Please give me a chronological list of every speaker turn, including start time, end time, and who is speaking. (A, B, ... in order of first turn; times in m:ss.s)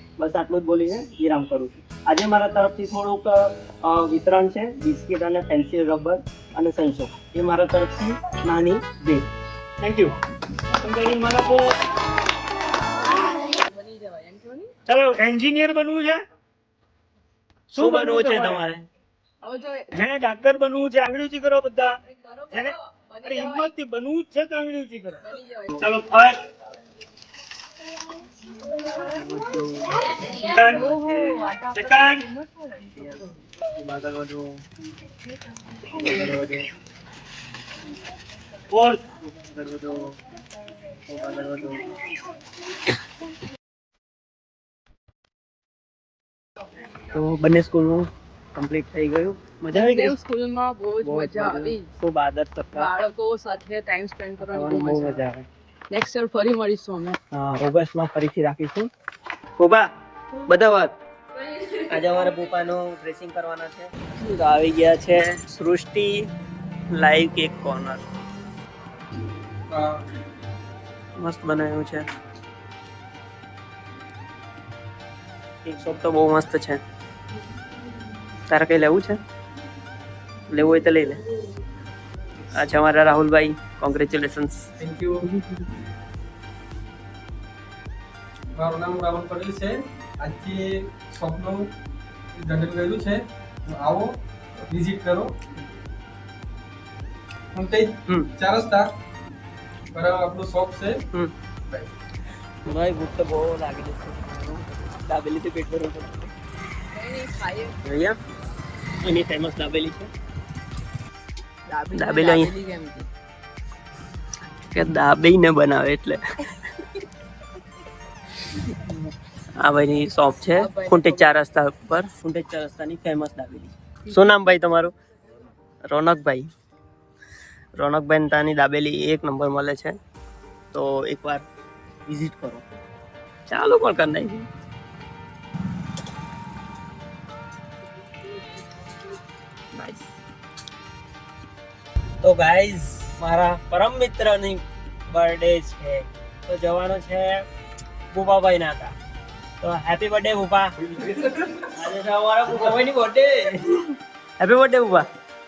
0:00.2-0:09.2 A
0:09.8-0:10.1 B
0:10.8-0:11.7 B
0:13.6-0:14.8 C
0:14.9-0:16.2 B
0:17.7-0:18.6 B
0:17.7-0:18.9 A
0:19.4-0:19.9 C
0:19.9-0:22.0 B
0:22.3-0:23.6 C
0:22.5-0:25.2 B
0:25.2-0:25.9 C
0:25.8-0:26.4 B
0:29.2-0:29.8 A
0:30.5-0:32.3 B
0:30.8-0:32.1 C
0:33.8-0:34.2 B
0:38.7-0:39.0 B
0:41.1-0:41.9 A
0:47.1-0:50.2 A
0:49.7-0:51.9 C
0:51.0-0:52.9 A
0:52.8-0:55.2 C
0:54.4-0:55.5 A
0:55.9-0:57.2 C
0:57.3-0:58.9 A
0:59.6-0:59.9 A
1:00.4-1:00.9 A
1:01.8-1:06.3 A
1:06.9-1:08.0 A
1:09.7-1:10.0 D
1:11.2-1:12.0 A
1:15.6-1:16.8 A
1:18.5-1:19.2 A
1:20.5-1:21.2 A
1:22.6-1:24.7 A
1:24.8-1:25.2 D
1:25.3-1:25.7 A
1:28.6-1:31.7 D
1:32.4-1:34.1 D
1:34.7-1:35.3 D
1:37.5-1:38.9 D
1:38.1-1:38.3 A
1:39.9-1:41.0 D
1:42.6-1:46.3 A
1:46.9-1:47.8 C
1:47.8-1:48.2 A
1:49.0-1:50.1 A
1:51.7-1:53.1 C
1:51.9-1:52.5 A
1:54.7-1:56.2 A
1:59.6-2:04.9 A
2:00.5-2:01.3 C
2:05.8-2:06.5 A
2:07.8-2:10.0 A
2:10.7-2:11.4 A
2:12.1-2:12.6 A
2:13.5-2:14.5 A
2:19.8-2:20.0 A
2:22.2-2:27.5 A
2:28.1-2:29.0 A
2:29.6-2:35.1 A